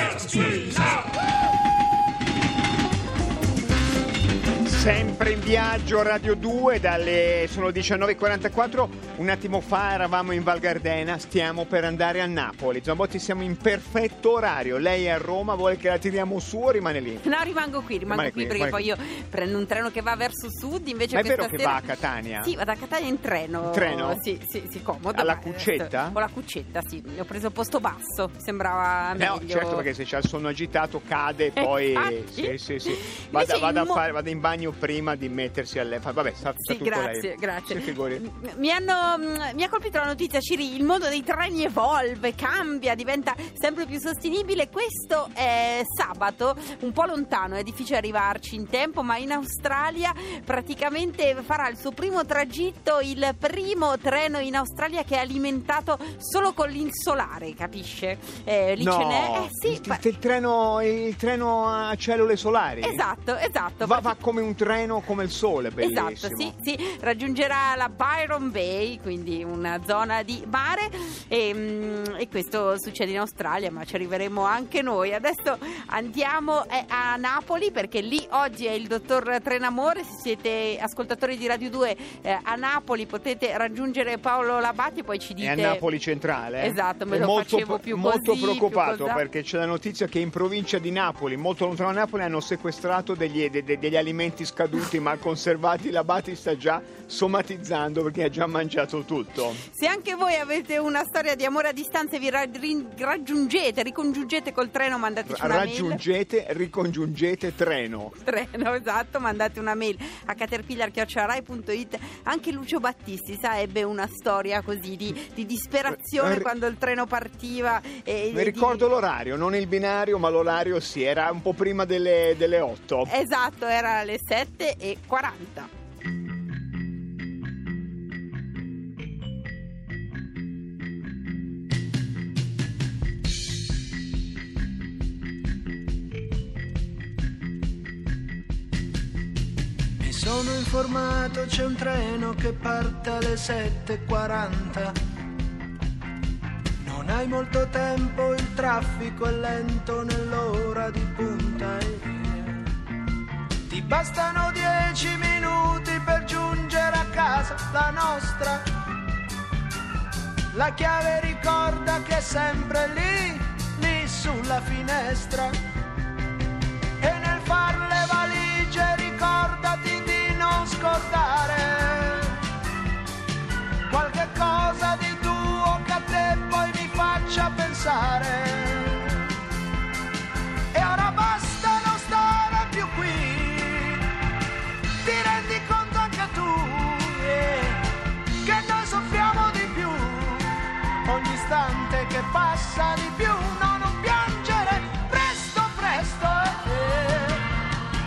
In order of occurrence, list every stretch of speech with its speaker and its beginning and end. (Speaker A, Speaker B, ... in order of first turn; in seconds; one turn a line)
Speaker A: 4.6-17.2
Speaker B: 17.2-29.9
Speaker A: 18.1-18.8
Speaker A: 21.1-22.5
Speaker A: 23.6-24.2
Speaker A: 25.1-26.2
Speaker A: 29.2-38.2
Speaker B: 31.6-34.0
Speaker B: 36.6-60.0
Speaker A: 58.8-63.0
Speaker B: 62.8-64.2
Speaker A: 63.8-66.5
Speaker B: 65.8-85.8
Speaker A: 85.4-99.6
Speaker B: 86.6-89.2
Speaker B: 99.7-106.0
Speaker A: 105.3-108.2
Speaker B: 108.2-118.9
Speaker A: 115.9-116.5
Speaker A: 118.3-123.1
Speaker B: 123.1-125.7
Speaker C: 140.0-145.0
Speaker C: 146.8-152.7
Speaker C: 153.7-158.7
Speaker C: 160.5-165.6
Speaker C: 167.0-172.4
Speaker C: 173.9-179.3
Speaker C: 180.7-184.1
Speaker C: 185.0-187.8
Speaker C: 188.4-197.5